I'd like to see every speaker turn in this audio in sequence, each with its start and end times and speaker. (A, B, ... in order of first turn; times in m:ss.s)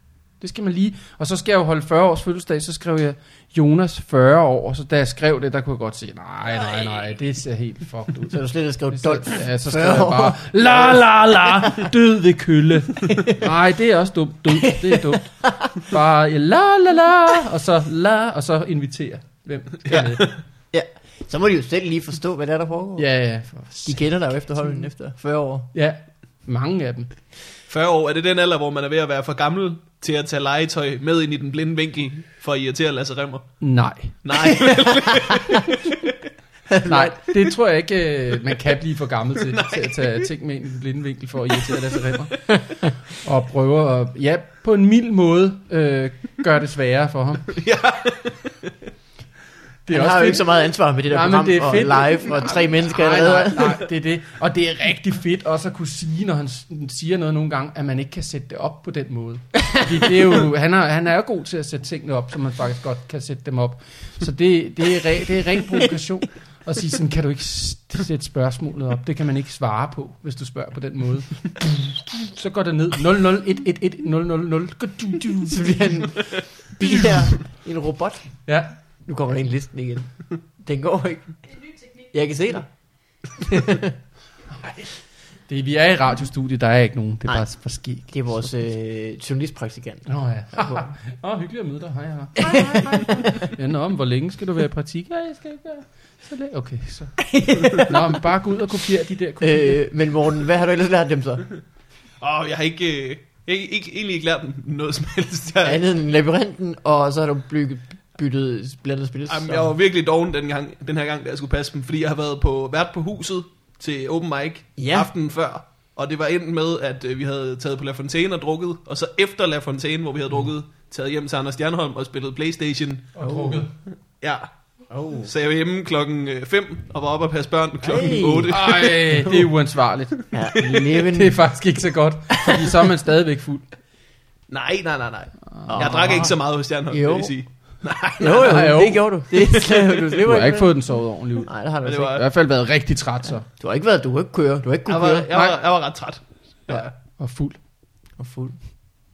0:00.4-0:20.3 A
0:08.3-0:11.9 B
0:13.0-0:13.4 B
0:14.6-0:15.7 B
0:19.9-0:20.2 C
0:20.7-0:23.0 B
0:23.0-0:24.1 A
0:23.8-0:25.7 B
0:25.7-0:27.1 A
0:27.7-0:33.6 C
0:33.6-0:34.2 A
0:34.2-0:36.1 C
0:34.4-0:35.7 B
0:36.7-0:37.4 B
0:36.8-0:47.5 A
0:39.5-0:40.3 C
0:47.5-0:48.7 C
0:49.8-1:15.9 A
0:49.9-0:53.8 B
1:15.5-1:18.3 B
1:16.8-1:17.3 A
1:18.5-1:18.7 A
1:19.0-1:22.7 B
1:23.2-1:24.0 B
1:24.5-1:24.9 A
1:25.5-1:28.1 A
1:28.1-1:30.8 B
1:30.1-1:39.8 A
1:32.4-1:33.3 B
1:37.2-1:38.2 B
1:39.4-1:41.5 B
1:42.2-1:45.8 C
1:45.6-1:49.7 B
1:49.3-2:03.1 C
1:54.8-1:55.1 B
2:03.1-2:03.7 A
2:03.2-2:03.7 B
2:04.2-2:04.5 C
2:04.9-2:05.3 B
2:05.2-2:09.0 C
2:07.8-2:09.4 B
2:08.5-2:13.6 A
2:10.3-2:11.4 B
2:14.5-2:18.7 C
2:15.5-2:16.3 A
2:15.7-2:16.4 B
2:16.9-2:17.3 B
2:18.2-2:20.8 B
2:18.3-2:19.2 A
2:20.2-2:23.4 A
2:21.4-2:22.2 B
2:21.8-2:22.2 C
2:23.5-2:25.3 B
2:24.9-2:26.9 C
2:27.2-2:27.6 A
2:28.2-2:28.6 B